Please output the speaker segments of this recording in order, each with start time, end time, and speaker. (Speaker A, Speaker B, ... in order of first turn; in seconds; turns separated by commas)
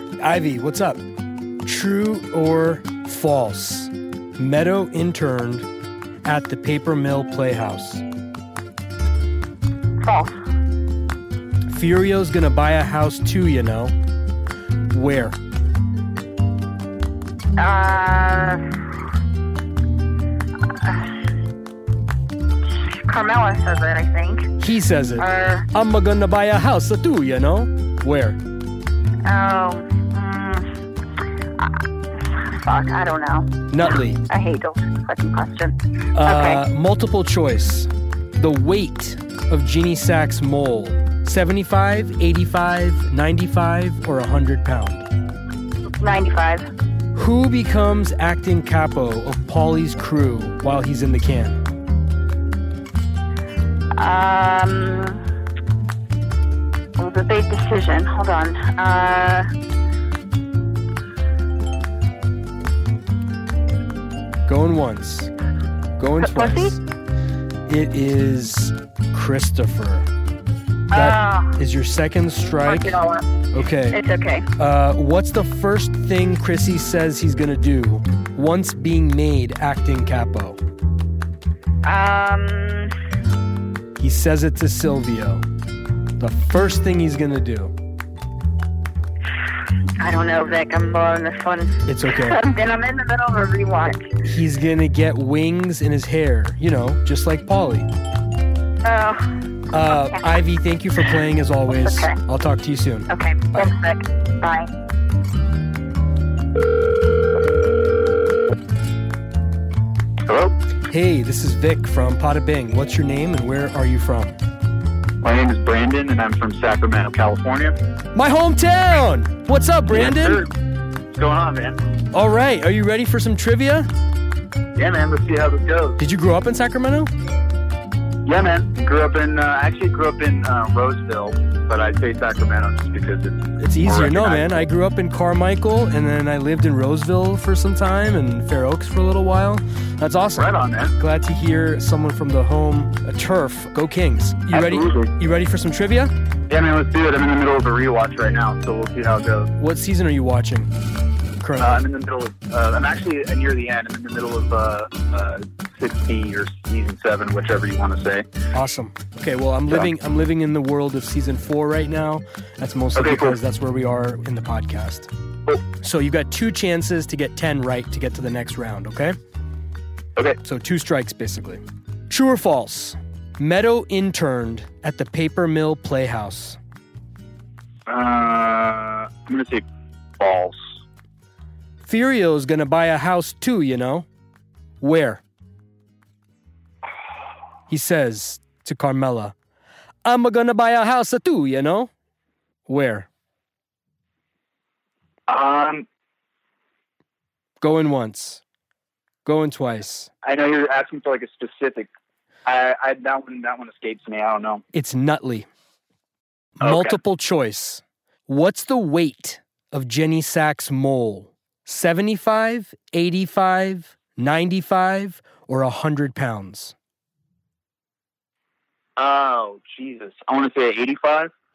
Speaker A: 0.2-1.0, Speaker A: 1.6-5.7, Speaker A: 6.2-8.0, Speaker B: 10.0-10.4, Speaker A: 11.7-13.9, Speaker A: 14.9-15.4, Speaker B: 17.6-18.6, Speaker B: 20.7-21.2, Speaker B: 22.8-24.5, Speaker A: 24.6-28.4, Speaker B: 25.2-25.7, Speaker B: 29.2-30.7, Speaker B: 31.6-36.6, Speaker A: 33.7-34.2, Speaker A: 36.1-45.1, Speaker B: 46.0-46.7, Speaker A: 47.1-51.6, Speaker B: 54.0-55.2, Speaker B: 57.0-59.5, Speaker A: 64.5-65.3, Speaker A: 66.0-66.8, Speaker B: 66.2-66.8, Speaker A: 67.7-70.1, Speaker B: 70.9-71.6, Speaker A: 70.9-73.0, Speaker B: 72.6-73.3, Speaker A: 73.5-74.0, Speaker B: 73.9-74.5, Speaker A: 74.6-80.6, Speaker B: 81.8-82.9, Speaker A: 84.0-85.5, Speaker A: 86.2-87.7, Speaker B: 90.0-94.1, Speaker A: 91.9-92.4, Speaker A: 94.2-97.9, Speaker B: 98.8-99.3, Speaker A: 99.7-103.7, Speaker B: 99.9-100.4, Speaker B: 101.7-102.2, Speaker B: 103.1-104.7, Speaker C: 110.3-110.5, Speaker A: 110.9-114.4, Speaker C: 115.2-117.8, Speaker A: 118.1-120.5, Speaker C: 119.9-120.5, Speaker C: 121.1-121.8, Speaker A: 122.1-123.9, Speaker C: 124.8-126.0, Speaker A: 126.0-127.1, Speaker C: 128.2-134.7, Speaker A: 133.6-146.1, Speaker C: 140.3-140.9, Speaker C: 144.5-145.1, Speaker C: 146.5-149.5, Speaker A: 149.6-150.7, Speaker A: 151.4-151.8, Speaker C: 151.6-158.3, Speaker A: 158.5-165.1, Speaker C: 162.9-163.4, Speaker A: 165.7-169.2, Speaker A: 170.4-176.6, Speaker C: 177.9-179.7, Speaker C: 180.2-180.6, Speaker A: 181.8-184.1, Speaker A: 184.8-185.2, Speaker A: 187.7-189.3, Speaker A: 190.1-191.9, Speaker A: 192.7-193.1, Speaker C: 195.3-195.9, Speaker A: 197.6-198.4, Speaker A: 199.2-200.1, Speaker C: 200.2-201.9, Speaker C: 202.5-204.6, Speaker A: 204.7-205.5, Speaker A: 206.6-216.8, Speaker C: 206.6-207.0, Speaker C: 219.0-221.3